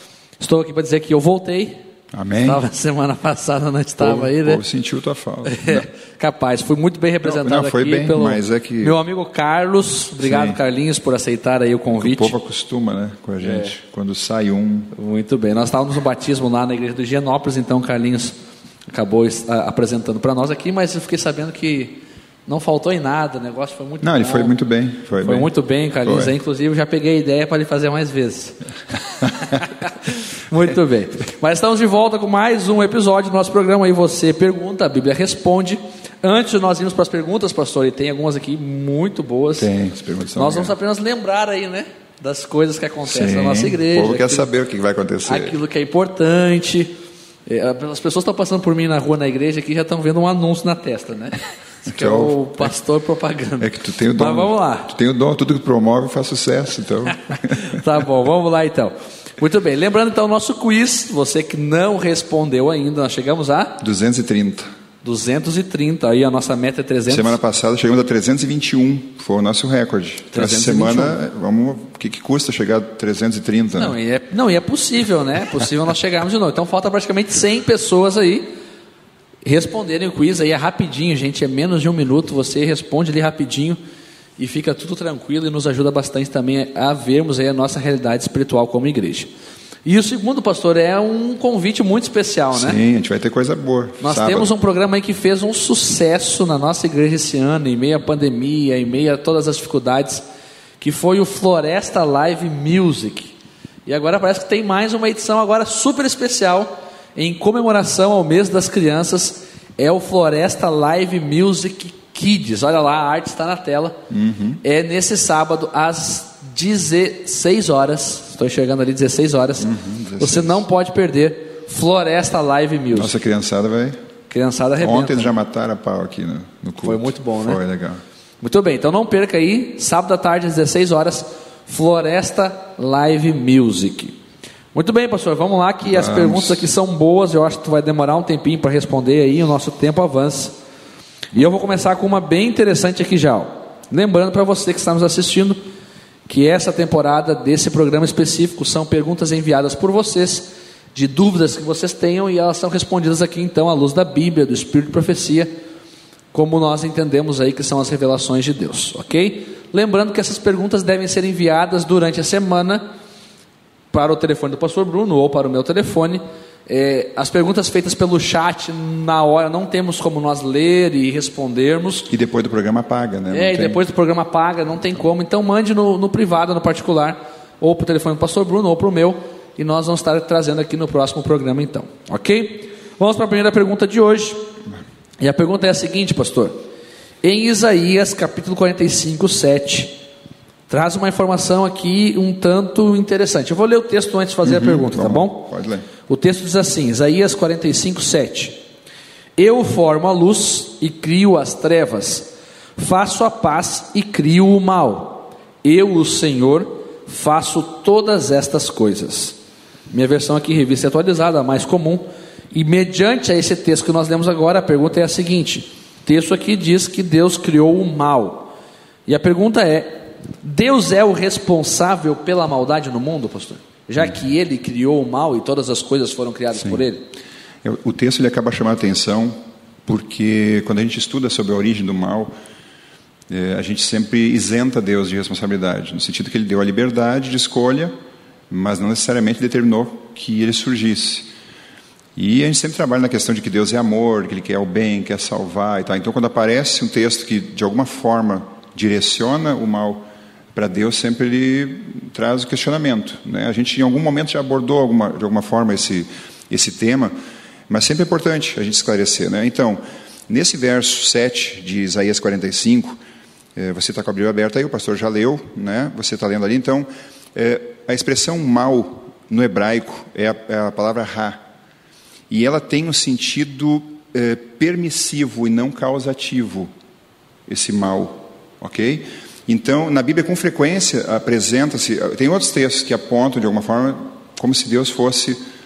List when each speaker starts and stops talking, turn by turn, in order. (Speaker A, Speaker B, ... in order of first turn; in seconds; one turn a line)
Speaker A: 0.4-1.8
Speaker B: 2.1-2.6
Speaker A: 2.4-4.6
Speaker B: 4.0-5.9
Speaker A: 5.5-12.3
Speaker B: 7.2-9.0
Speaker B: 10.2-10.6
Speaker B: 11.9-14.9
Speaker A: 13.4-13.7
Speaker A: 14.9-18.4
Speaker A: 18.9-24.5
Speaker B: 24.0-25.5
Speaker A: 25.2-28.6
Speaker B: 26.1-26.3
Speaker A: 29.3-39.7
Speaker B: 39.6-40.7
Speaker A: 40.4-44.5
Speaker B: 43.0-45.6
Speaker A: 45.2-46.9
Speaker A: 47.5-54.9
Speaker B: 51.9-52.7
Speaker B: 53.6-57.8
Speaker A: 57.5-63.8
Speaker B: 63.8-64.7
Speaker A: 65.0-67.4
Speaker B: 67.1-74.0
Speaker A: 70.3-71.2
Speaker A: 73.8-78.5
Speaker A: 79.4-83.8
Speaker A: 84.4-89.3
Speaker A: 89.8-92.8
Speaker B: 92.5-94.5
Speaker A: 94.0-100.2
Speaker A: 100.8-103.3
Speaker A: 103.9-114.0
Speaker B: 114.1-114.6
Speaker A: 114.6-123.1
Speaker B: 119.6-120.7
Speaker B: 122.9-124.0
Speaker A: 124.3-125.3
Speaker B: 124.8-128.0
Speaker A: 126.8-127.6
Speaker A: 128.4-134.2
Speaker A: 134.7-140.6
Speaker B: 135.8-136.7
Speaker A: 141.3-145.6
Speaker A: 146.3-155.5
Speaker A: 156.3-162.9
Speaker A: 163.9-172.1
Speaker B: 172.1-173.8
Speaker A: 173.3-184.5
Speaker A: 185.2-186.6
Speaker A: 187.2-190.0
Speaker A: 190.7-195.5
Speaker B: 194.4-195.9
Speaker A: 196.1-198.6
Speaker A: 199.4-209.4
Speaker A: 209.9-218.5
Speaker A: 219.1-227.1
Speaker B: 226.6-226.8
Speaker B: 227.6-232.3
Speaker B: 233.3-237.9
Speaker B: 238.5-241.3
Speaker B: 242.2-257.1
Speaker B: 257.7-263.0
Speaker B: 263.6-271.4
Speaker B: 272.3-276.7
Speaker B: 277.5-285.4